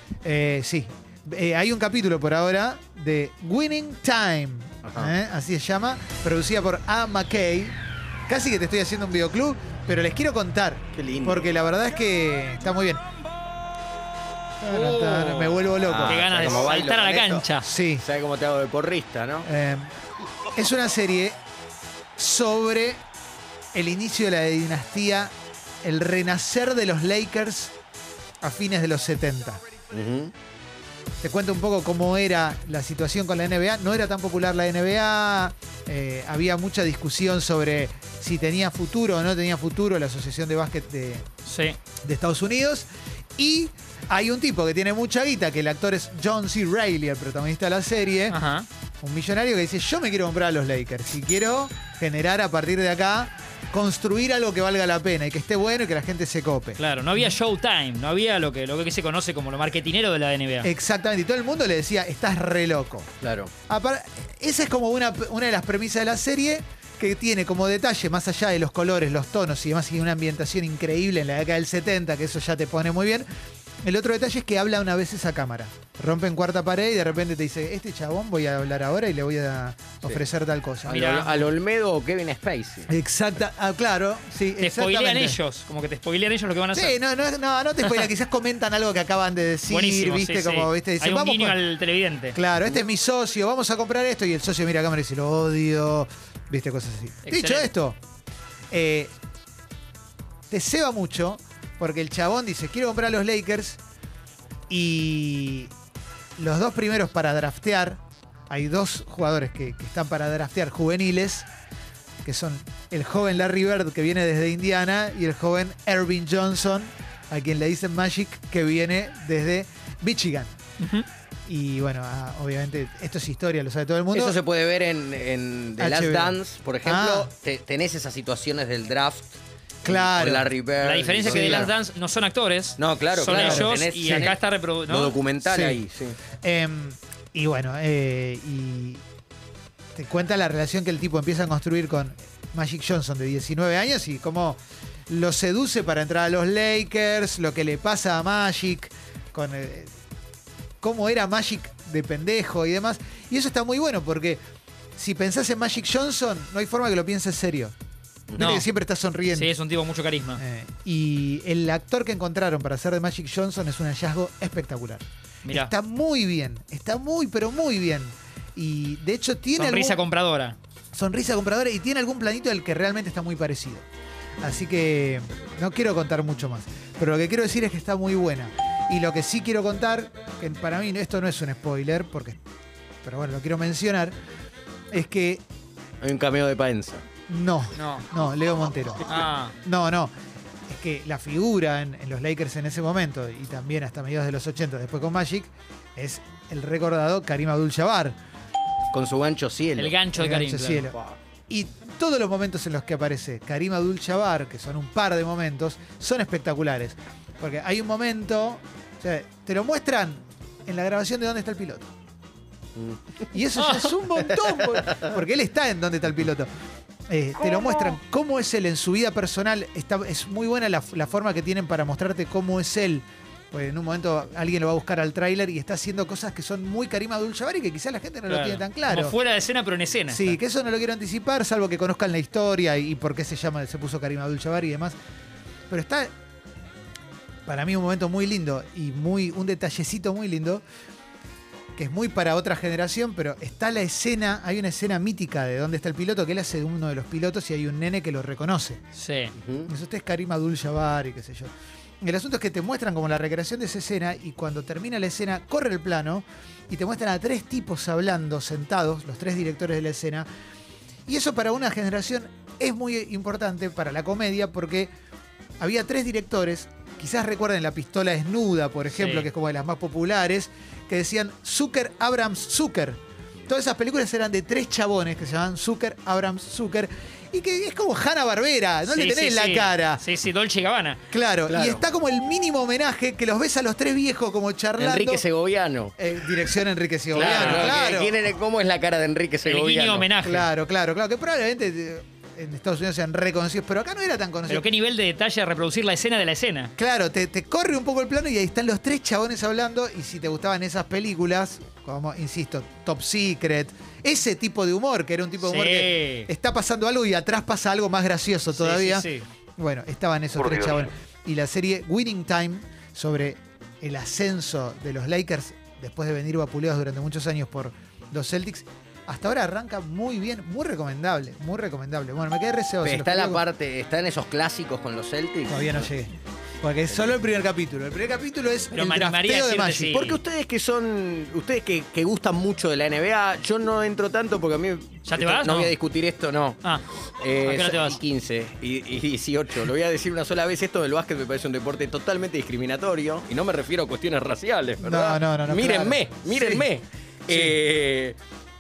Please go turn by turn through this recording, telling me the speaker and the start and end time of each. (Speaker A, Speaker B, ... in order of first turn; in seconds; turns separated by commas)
Speaker A: 0.2-13.0, Speaker B: 4.8-5.1, Speaker B: 10.9-11.5, Speaker A: 14.6-16.2, Speaker C: 14.7-17.7, Speaker B: 15.9-17.5, Speaker A: 17.6-18.1, Speaker B: 18.0-19.5, Speaker A: 19.4-19.9, Speaker A: 20.5-21.4, Speaker A: 22.2-23.0, Speaker A: 23.7-27.7, Speaker A: 28.4-29.6, Speaker B: 29.9-30.3, Speaker A: 31.2-41.3, Speaker C: 41.5-41.8, Speaker A: 42.0-42.9, Speaker A: 43.4-48.4, Speaker C: 48.3-48.7, Speaker A: 49.0-57.3, Speaker C: 56.8-60.7, Speaker A: 60.6-63.1, Speaker B: 63.2-63.5, Speaker A: 63.7-73.3, Speaker A: 73.8-81.2, Speaker B: 80.9-82.9, Speaker C: 80.9-81.4, Speaker A: 82.9-85.4, Speaker C: 84.6-87.0, Speaker A: 86.7-91.6, Speaker C: 89.7-92.4, Speaker A: 92.3-98.0, Speaker C: 97.2-97.7, Speaker A: 98.7-99.1, Speaker A: 100.5-103.8, Speaker A: 104.7-105.7, Speaker A: 106.4-111.5, Speaker A: 112.2-120.6, Speaker C: 120.8-121.1, Speaker A: 121.5-124.4, Speaker B: 124.1-131.7, Speaker A: 125.8-127.3, Speaker A: 129.8-130.5, Speaker C: 130.8-135.2, Speaker A: 131.2-131.7, Speaker B: 132.8-136.2, Speaker A: 133.3-133.7, Speaker A: 135.4-135.8, Speaker A: 136.4-139.0, Speaker A: 139.9-149.9, Speaker A: 150.8-154.4, Speaker A: 155.0-157.7, Speaker B: 158.3-158.6, Speaker A: 158.4-159.5, Speaker C: 158.4-158.7, Speaker C: 159.3-160.4, Speaker A: 160.4-170.0, Speaker C: 165.4-165.7, Speaker C: 169.6-170.6, Speaker A: 170.9-173.9, Speaker A: 174.4-182.4, Speaker A: 183.0-184.1, Speaker A: 184.9-185.4, Speaker B: 186.0-187.0, Speaker A: 187.3-190.1, Speaker C: 187.8-188.1, Speaker C: 189.1-189.5, Speaker A: 190.7-198.2, Speaker B: 198.9-199.9, Speaker C: 199.8-200.9, Speaker A: 200.2-201.0, Speaker A: 201.5-211.9, Speaker A: 213.3-216.5, Speaker C: 213.6-213.9, Speaker B: 214.5-215.1, Speaker A: 217.1-229.2, Speaker C: 228.3-230.4, Speaker A: 230.1-235.0, Speaker A: 235.7-236.1, Speaker A: 237.5-240.6, Speaker A: 241.8-248.8, Speaker C: 249.0-249.3, Speaker B: 249.4-249.7, Speaker A: 249.7-260.3, Speaker A: 261.1-264.9, Speaker A: 265.6-280.0, Speaker C: 268.9-269.3, Speaker C: 278.9-281.0, Speaker A: 281.1-285.2, Speaker B: 281.5-281.9, Speaker B: 284.8-286.0, Speaker A: 286.0-288.2, Speaker B: 287.1-290.1, Speaker C: 287.2-288.0, Speaker C: 289.5-290.5, Speaker A: 290.2-294.6, Speaker C: 294.5-296.7, Speaker A: 296.8-323.4, Speaker C: 305.4-306.3, Speaker C: 308.5-309.3, Speaker B: 322.8-325.9, Speaker A: 325.5-329.9, Speaker C: 328.7-330.2, Speaker B: 329.9-336.6, Speaker C: 335.1-335.7, Speaker B: 337.2-348.2, Speaker C: 337.5-338.0, Speaker A: 344.8-346.7, Speaker A: 347.3-347.6